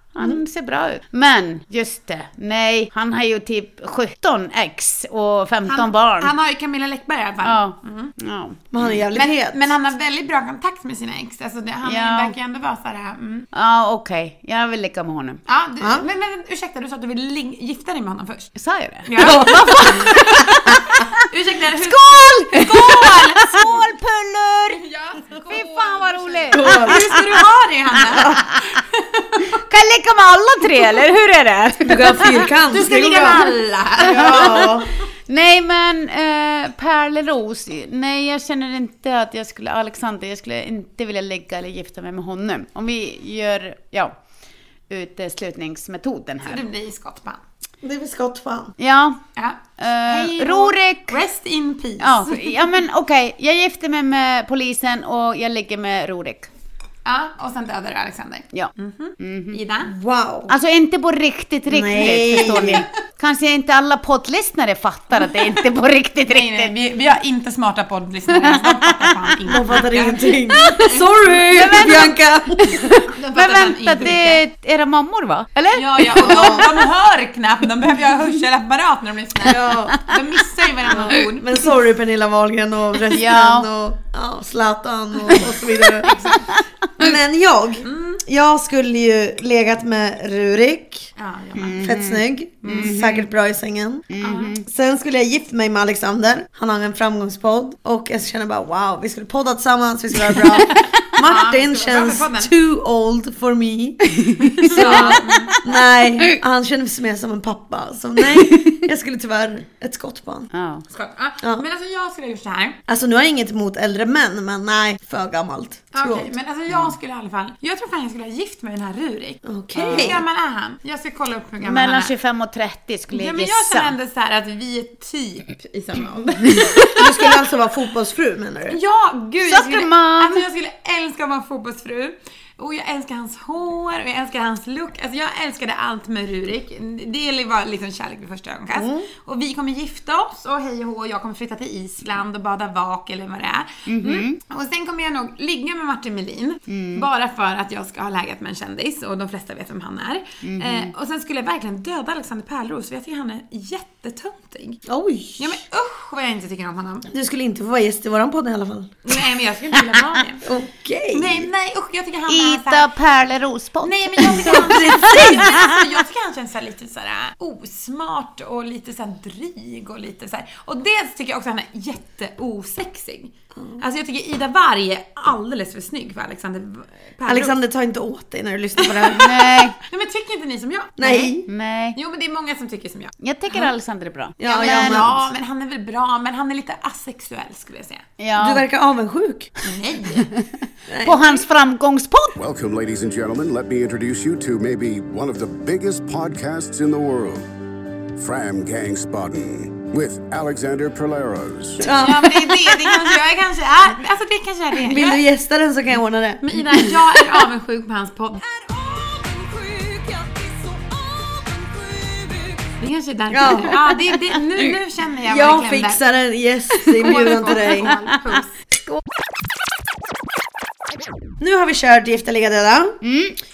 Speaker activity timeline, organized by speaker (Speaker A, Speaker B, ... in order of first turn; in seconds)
Speaker A: 0.1-6.3, 7.4-8.6, 11.8-12.3, 13.5-15.4, 18.6-19.9, 21.7-24.8, 25.5-27.2, 29.7-32.5, 34.0-34.7, 35.3-44.1, 44.9-46.6, 48.8-49.2, 49.8-51.2, 52.0-56.5, 58.5-59.6, 60.5-66.7, 68.3-69.1, 71.5-72.1, 72.8-76.8, 83.1-83.7, 91.6-93.2, 94.1-94.6, 104.2-105.3, 110.5-110.8, 121.6-123.9, 129.4-130.4, 143.9-144.4, 146.7-147.0, 150.4-150.9, 162.3-165.7, 179.2-179.8, 181.4-181.9, 183.2-185.2, 188.2-188.6, 191.0-192.4, 217.0-218.1, 223.0-223.3
Speaker B: 5.7-8.1, 9.1-13.5, 15.5-18.5, 19.1-23.8, 24.8-29.4, 32.7-34.5, 46.5-47.4, 49.4-52.6, 57.0-59.9, 66.3-71.1, 73.1-74.4, 75.7-81.8, 86.1-86.4, 87.8-88.2, 91.2-91.8, 92.6-92.9, 94.2-94.5, 101.2-102.5, 104.6-105.6, 110.9-112.8, 115.9-122.1, 123.1-127.0, 128.7-154.8, 155.4-157.1, 159.0-160.4, 161.1-162.8, 163.8-177.6, 178.8-181.4, 181.9-183.1, 184.4-188.0, 189.6-190.3, 201.9-205.2, 206.4-216.0, 217.0-218.5
Speaker C: 8.7-9.6, 19.2-20.7, 26.5-27.0, 31.9-33.4, 34.0-34.9, 47.8-48.7, 59.9-60.5, 61.7-62.8, 69.5-73.0, 76.2-76.6, 79.4-80.0, 80.9-86.1, 87.0-91.1, 91.8-94.0, 94.6-104.0, 104.6-110.5, 112.9-116.3, 119.4-120.2, 127.0-128.8, 138.7-139.1, 154.9-155.5, 157.1-158.9, 160.4-161.5, 164.4-165.4, 177.2-179.3, 181.0-181.4, 184.4-185.2, 188.4-189.5, 190.9-191.2, 201.8-202.9, 204.8-206.4, 213.3-213.7, 215.3-217.9, 221.4-223.0
Speaker D: 192.4-197.5, 198.2-201.8